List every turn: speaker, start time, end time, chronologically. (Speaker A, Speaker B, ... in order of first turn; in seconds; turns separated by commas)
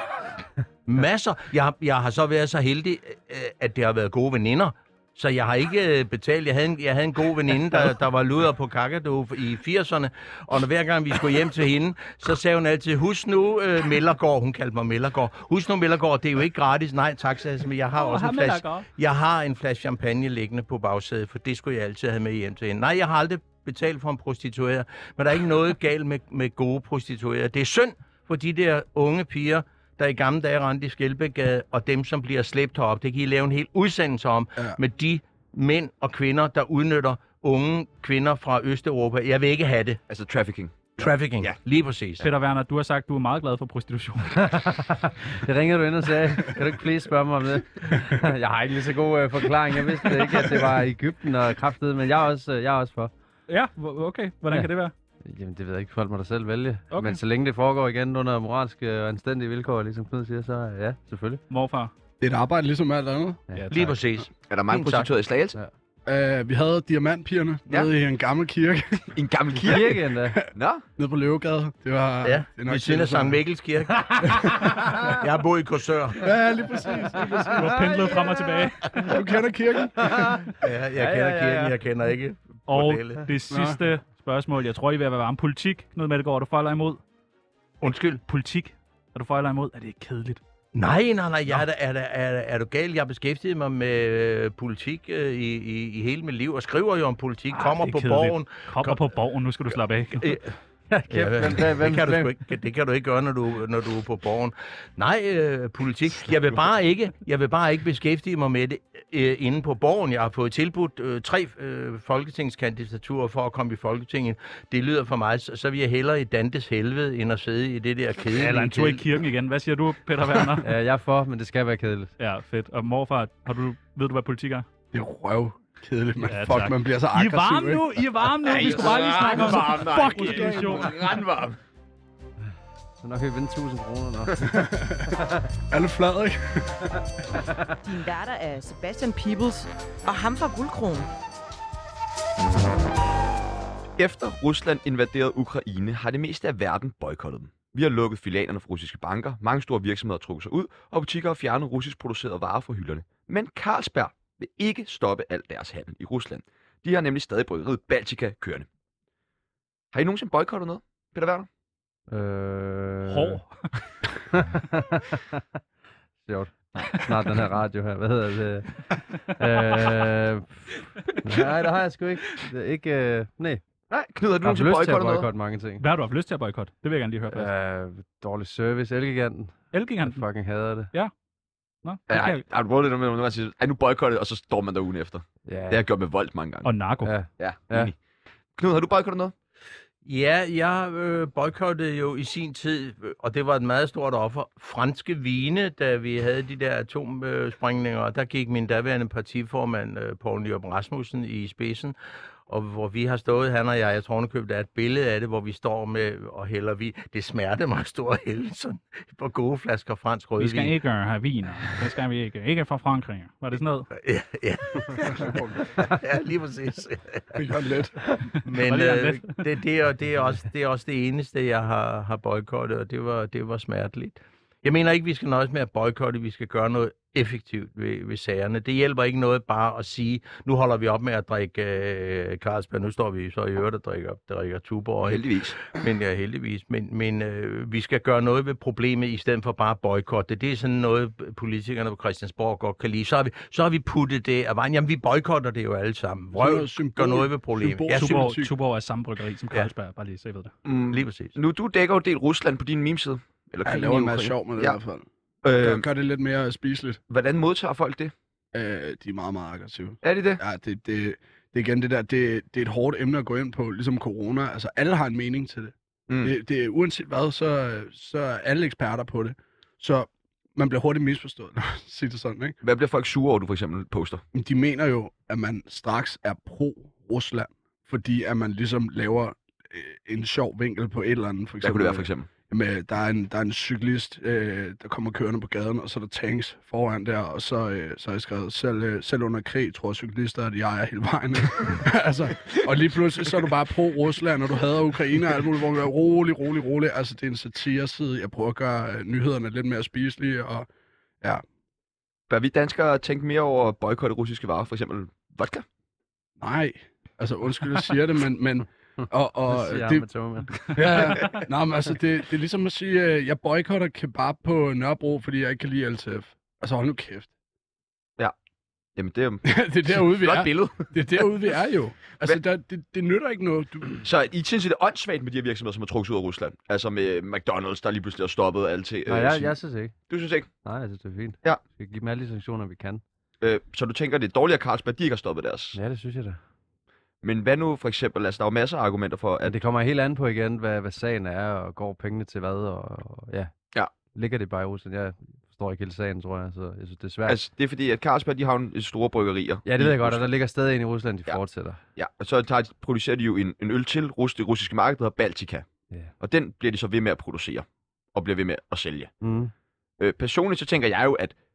Speaker A: 0.8-40.0, Speaker B: 17.9-18.9, Speaker C: 40.1-40.8, Speaker A: 41.0-42.2, Speaker B: 42.2-44.6, Speaker D: 44.4-53.1, Speaker B: 53.5-54.9, Speaker D: 55.2-61.4, Speaker B: 56.9-57.2, Speaker B: 61.5-61.9, Speaker E: 62.2-63.4, Speaker B: 63.6-64.0, Speaker A: 63.7-65.1, Speaker C: 64.4-65.6, Speaker E: 66.0-69.1, Speaker C: 69.1-70.8, Speaker D: 69.6-70.4, Speaker E: 71.0-73.4, Speaker A: 72.2-76.3, Speaker E: 74.3-75.0, Speaker E: 76.2-78.1, Speaker B: 77.5-79.1, Speaker E: 79.0-80.4, Speaker D: 80.0-81.8, Speaker A: 80.6-83.2, Speaker B: 82.7-87.0, Speaker E: 83.5-83.8, Speaker A: 87.8-88.2, Speaker B: 88.3-90.4, Speaker A: 90.7-99.0, Speaker B: 97.5-100.4, Speaker A: 100.2-100.5, Speaker D: 100.9-102.3, Speaker A: 101.1-119.0, Speaker B: 118.3-120.7, Speaker D: 120.6-122.1, Speaker B: 122.2-124.7, Speaker E: 124.9-128.1, Speaker B: 126.3-131.2, Speaker C: 128.4-131.6, Speaker E: 128.6-130.9, Speaker D: 133.0-135.4, Speaker E: 134.4-136.9, Speaker F: 137.8-141.1, Speaker C: 144.0-158.7, Speaker C: 159.9-161.5, Speaker D: 162.1-163.4, Speaker B: 163.1-163.7, Speaker D: 164.3-165.4, Speaker D: 166.2-173.6, Speaker C: 173.9-175.3, Speaker D: 174.4-175.8, Speaker B: 175.8-177.5, Speaker D: 177.3-180.9, Speaker B: 179.7-180.2, Speaker B: 181.8-182.4, Speaker C: 182.1-186.7, Speaker D: 185.5-185.8, Speaker B: 186.6-187.2, Speaker D: 187.0-187.9, Speaker C: 187.3-187.9, Speaker C: 188.6-189.3, Speaker A: 190.0-201.9, Speaker A: 202.5-210.7, Speaker B: 210.4-213.9, Speaker A: 213.9-217.4, Speaker E: 215.1-215.7, Speaker E: 217.3-218.0, Speaker A: 218.4-248.3, Speaker B: 218.5-219.4, Speaker C: 235.0-235.6, Speaker E: 246.3-248.5, Speaker B: 247.9-250.5, Speaker C: 250.6-254.8, Speaker A: 250.9-251.3, Speaker E: 253.6-257.0, Speaker C: 255.4-255.8, Speaker C: 257.1-258.1, Speaker E: 258.5-272.6, Speaker C: 260.0-260.4, Speaker C: 272.6-274.2, Speaker E: 274.3-300.7, Speaker C: 281.6-282.3, Speaker C: 302.3-305.6, Speaker E: 306.4-310.1, Speaker D: 309.5-311.3, Speaker E: 310.7-317.3, Speaker B: 310.8-311.4, Speaker C: 318.9-321.0, Speaker E: 319.4-324.0, Speaker C: 324.0-329.5, Speaker D: 329.1-329.9, Speaker C: 330.1-330.5, Speaker D: 330.6-333.0, Speaker C: 333.4-335.8, Speaker D: 335.7-336.4, Speaker C: 337.2-339.6, Speaker D: 339.4-343.5, Speaker D: 344.1-347.4, Speaker C: 347.3-350.3, Speaker D: 349.6-351.8, Speaker C: 351.9-355.6, Speaker C: 356.2-359.1, Speaker D: 359.2-359.5, Speaker C: 360.0-361.3